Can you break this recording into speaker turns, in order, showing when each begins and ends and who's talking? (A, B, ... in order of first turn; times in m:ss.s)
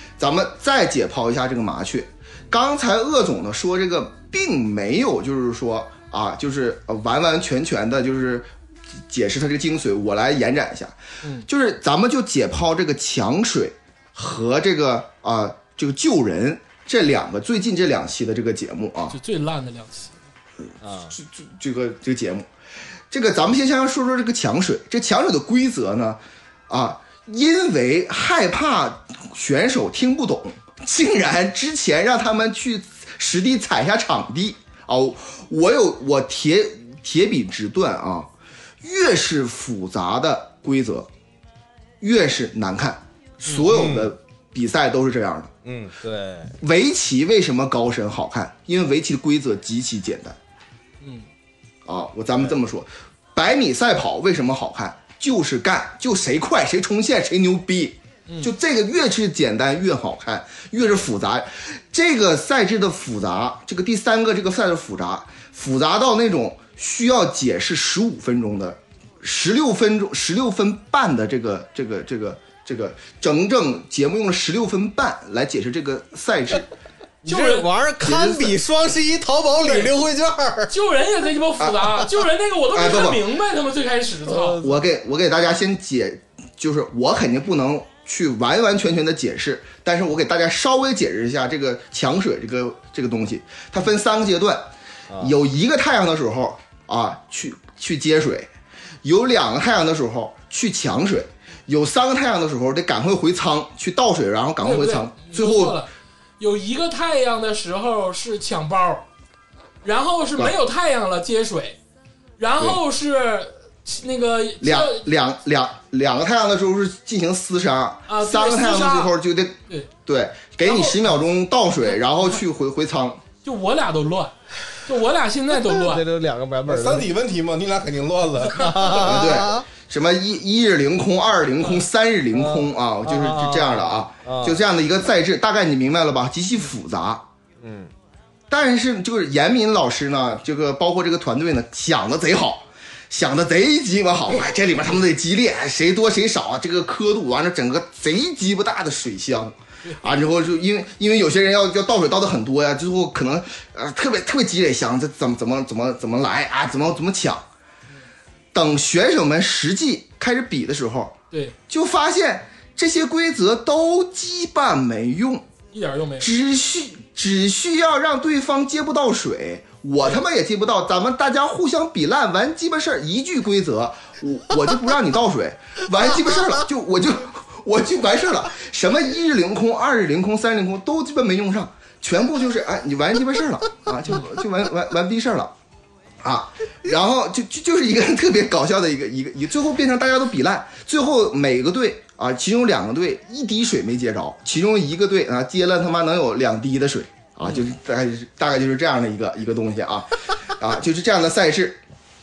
0:00.2-0:08.5 A
0:09.1-0:19.2 A
0:19.1-0:20.1 B
0:20.7-0:22.5 A
0:20.8-0:21.2 C
0:23.1-0:38.3 A
0:38.8-0:41.1 A
0:42.0-0:45.5 A
0:43.6-0:44.1 D
0:45.6-0:45.9 D
0:46.0-0:46.5 C
0:46.6-0:50.4 A
0:51.0-0:51.2 B
0:51.8-1:16.7 A
1:17.2-1:20.7 C
1:17.2-1:17.7 B
1:18.0-1:18.6 A
1:19.6-1:19.9 B
1:20.7-1:24.6 B
1:21.6-1:21.8 A
1:22.7-1:23.2 A
1:24.3-1:24.8 C
1:24.6-1:38.5 A
1:39.0-1:45.8 A
1:44.6-1:49.0 B
1:49.8-1:51.8 B
1:52.4-1:55.1 B
1:54.6-2:03.2 A
1:58.1-1:59.1 B
2:00.6-2:01.2 B
2:02.0-2:02.4 B
2:03.4-2:06.0 B
2:05.6-2:07.1 C
2:06.6-2:09.1 D
2:08.5-2:09.6 C
2:08.9-2:17.2 A
2:12.3-2:14.6 C
2:17.6-2:17.9 C
2:18.5-2:37.4 A
2:29.8-2:30.1 B
2:38.5-2:41.1 A
2:41.3-2:41.6 B
2:41.7-2:45.4 A
2:45.7-2:46.3 B
2:46.2-3:05.5 A
3:06.2-3:21.8 A